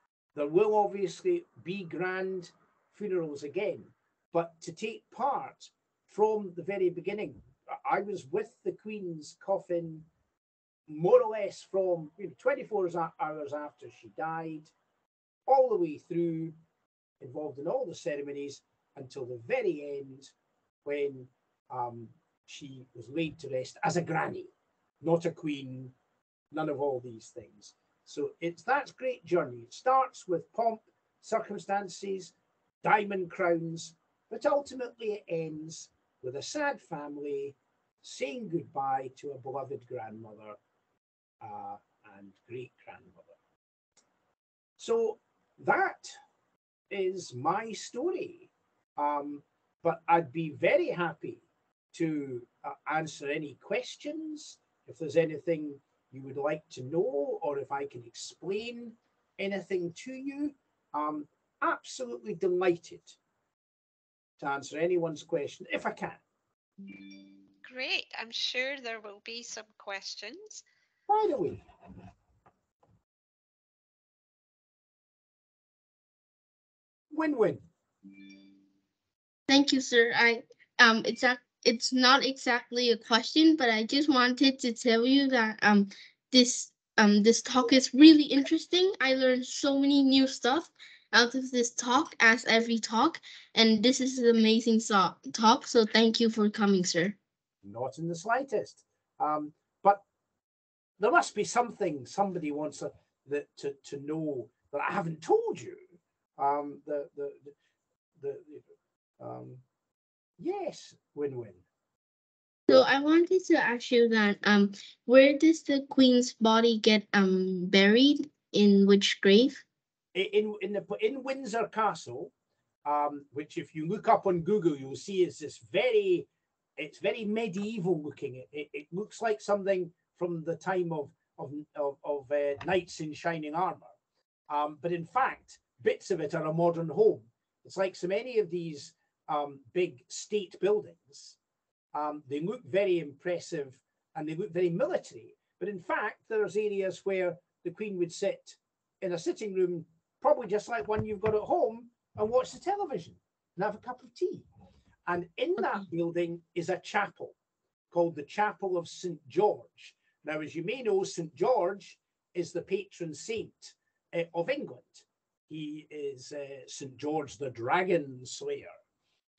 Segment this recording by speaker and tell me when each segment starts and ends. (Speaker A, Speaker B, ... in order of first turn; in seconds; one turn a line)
Speaker A: 0.3-10.1
Speaker A: 10.9-14.7
Speaker A: 15.5-16.6
Speaker A: 17.2-20.3
Speaker A: 20.9-25.9
Speaker A: 26.5-40.6
Speaker A: 41.4-43.3
Speaker A: 44.8-46.1
Speaker A: 46.9-63.2
Speaker A: 64.4-66.2
Speaker B: 67.6-70.6
Speaker A: 71.1-71.6
Speaker A: 77.1-77.6
Speaker C: 79.5-97.2
Speaker A: 97.6-100.0
Speaker A: 101.0-105.8
Speaker A: 106.4-107.5
Speaker A: 108.2-108.6
Speaker A: 109.2-109.6
Speaker A: 110.4-111.6
Speaker C: 112.7-119.6
Speaker A: 120.1-122.3
Speaker A: 122.8-133.9
Speaker A: 134.5-141.4
Speaker A: 141.9-154.4
Speaker A: 155.1-157.3
Speaker A: 157.9-168.7